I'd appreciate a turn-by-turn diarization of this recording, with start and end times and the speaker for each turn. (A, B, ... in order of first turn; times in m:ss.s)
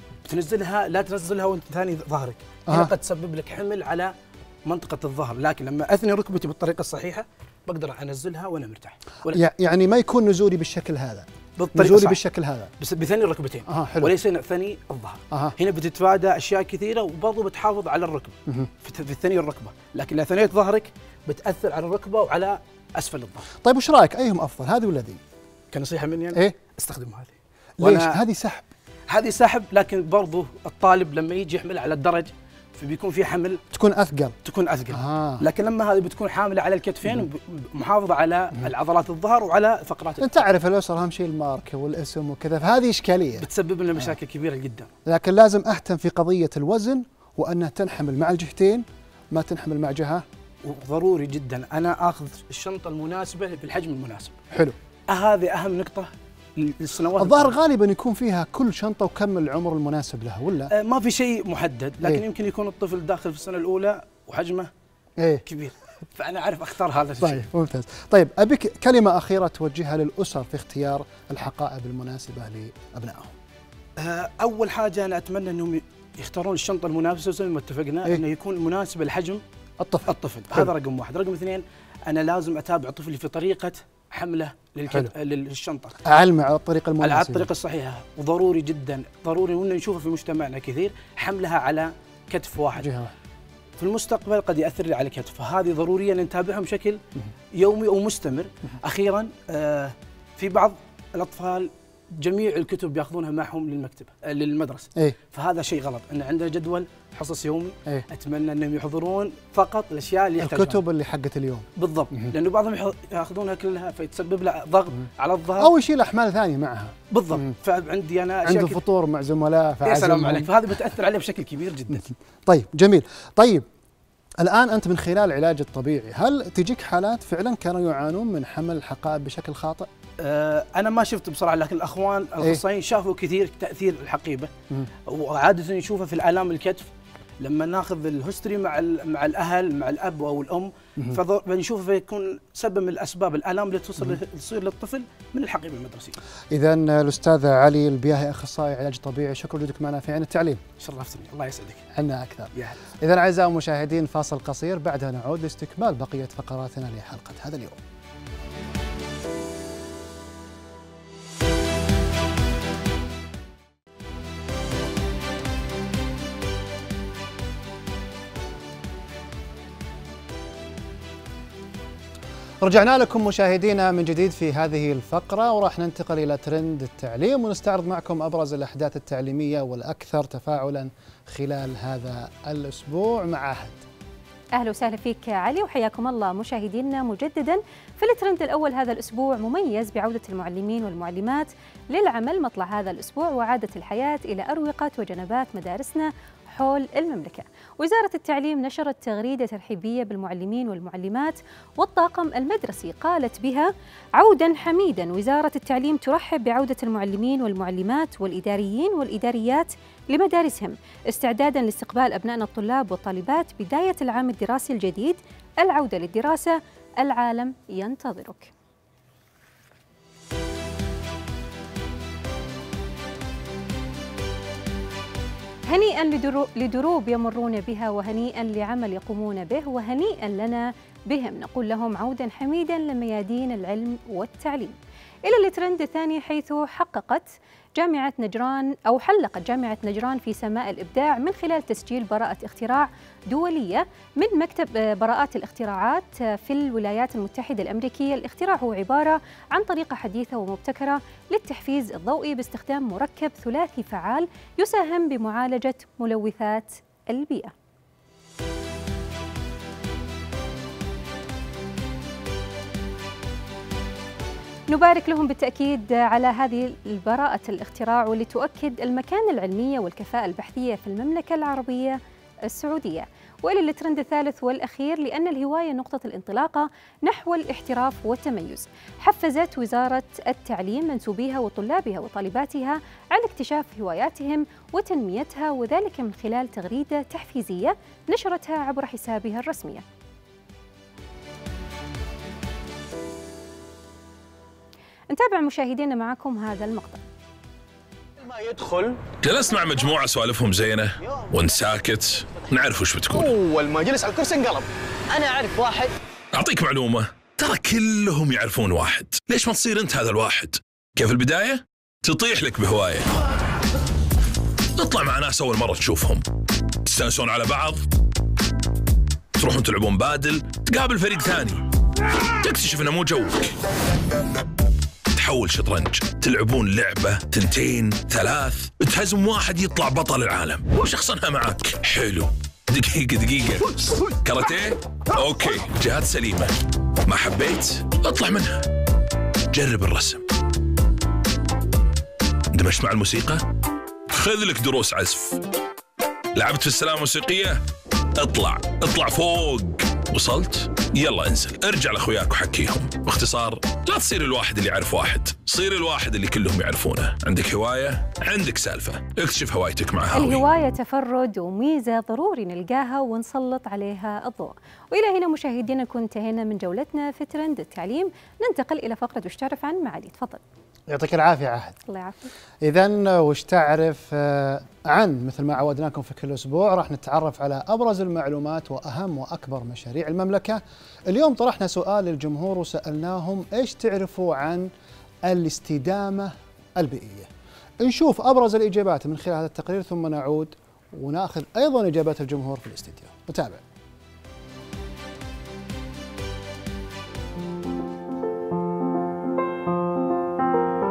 0:00.2-0:04.1 A
0:04.6-0:09.4 A
0:09.3-0:12.7 B
0:11.6-0:12.2 A
0:12.8-0:23.4 A
0:13.7-0:14.1 B
0:23.5-0:25.2 B
0:25.7-0:28.2 A
0:26.3-0:26.6 B
0:27.8-0:28.6 B
0:29.1-0:33.6 A
0:33.7-0:34.4 B
0:34.4-0:40.3 A
0:34.9-0:35.4 B
0:40.2-0:43.4 B
0:43.4-0:44.9 A
0:45.0-0:50.2 B
0:50.6-0:54.4 A
0:55.1-0:57.6 A
0:57.2-1:00.7 B
1:00.7-1:04.7 A
1:05.2-1:05.4 B
1:05.4-1:07.5 A
1:07.2-1:13.3 B
1:14.0-1:19.4 A
1:19.8-1:20.7 B
1:20.1-1:26.0 A
1:26.0-1:27.5 B
1:27.0-1:32.9 A
1:32.8-1:33.1 B
1:33.8-1:37.0 A
1:37.6-1:50.8 A
1:50.4-1:52.3 B
1:51.8-1:55.7 A
1:55.6-1:57.5 B
1:57.1-1:58.8 A
1:58.4-2:00.5 B
1:59.8-2:02.1 A
2:01.9-2:03.6 B
2:04.4-2:09.9 B
2:10.2-2:14.5 A
2:15.0-2:26.2 A
2:26.5-2:30.6 B
2:30.8-2:31.8 A
2:31.9-2:37.8 B
2:52.6-3:03.8 B
3:04.6-3:38.5 C
3:45.7-4:17.5 C
4:24.7-4:49.8 C
4:55.1-4:57.0 C
4:58.2-4:59.0 D
4:59.2-5:03.3 E
5:01.0-5:01.6 D
5:03.1-5:05.9 D
5:06.3-5:13.1 E
5:14.8-5:16.2 E
5:16.8-5:17.8 E
5:19.4-5:21.6 E
5:22.2-5:23.5 E
5:25.1-5:36.5 E
5:37.0-5:38.6 E
5:39.5-5:40.2 E
5:42.5-5:43.4 E
5:44.1-5:45.4 E
5:46.3-5:47.6 E
5:48.1-6:00.5 E
6:00.1-6:10.4 C
6:10.9-6:11.8 B
6:11.9-6:12.3 C
6:12.6-6:24.7 B
6:25.2-6:27.3 B
6:27.8-6:33.6 B